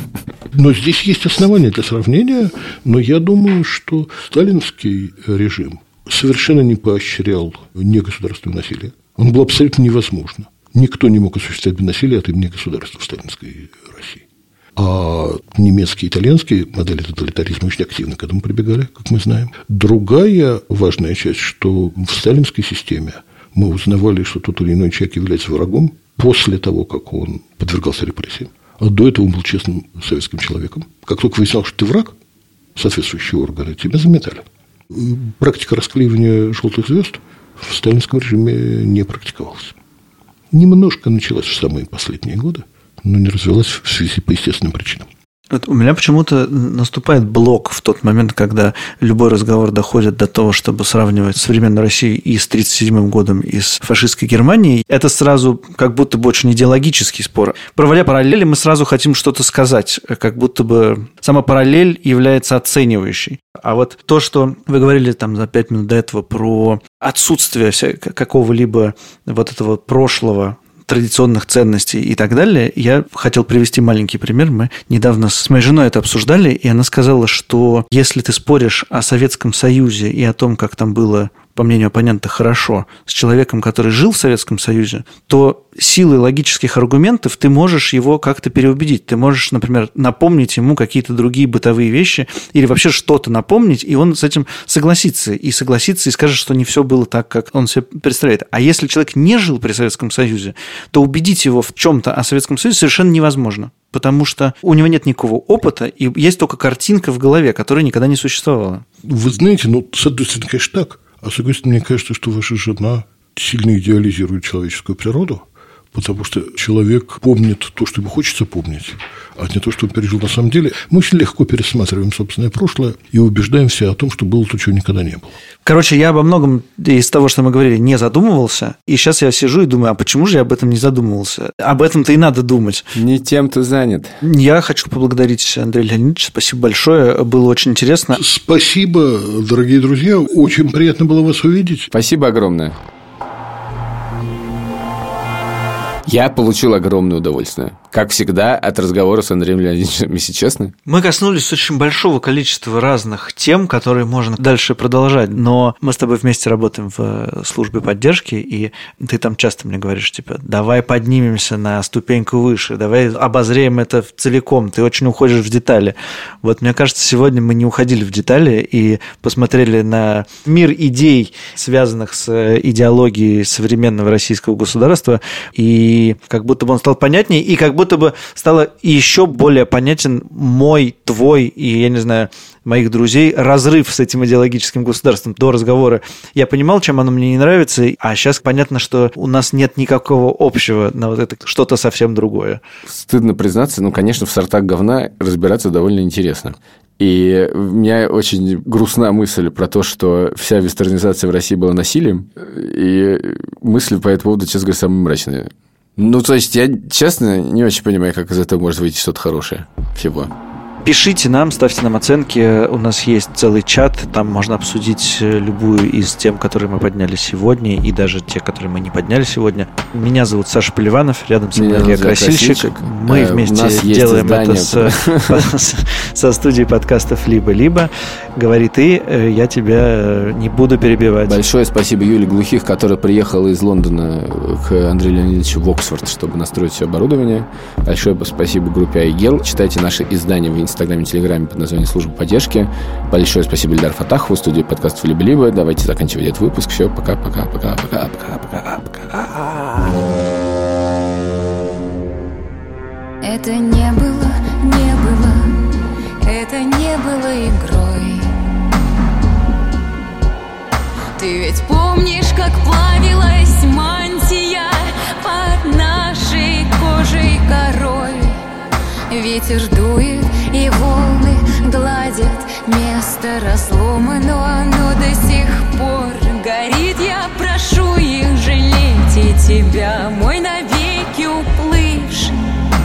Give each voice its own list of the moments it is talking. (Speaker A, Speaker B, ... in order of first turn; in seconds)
Speaker A: 0.5-14.2, 14.8-32.1, 32.8-39.8, 40.5-45.1, 109.0-125.3, 138.2-141.9
Speaker B: 45.5-108.8, 125.7-132.8, 134.2-138.2, 150.9-192.6, 210.8-231.4
Speaker C: 132.9-134.1, 141.9-142.8, 146.1-150.7, 192.9-210.3, 221.6-225.5, 231.2-249.8
Speaker D: 253.2-255.7, 256.2-258.3, 261.2-268.4, 269.1-282.4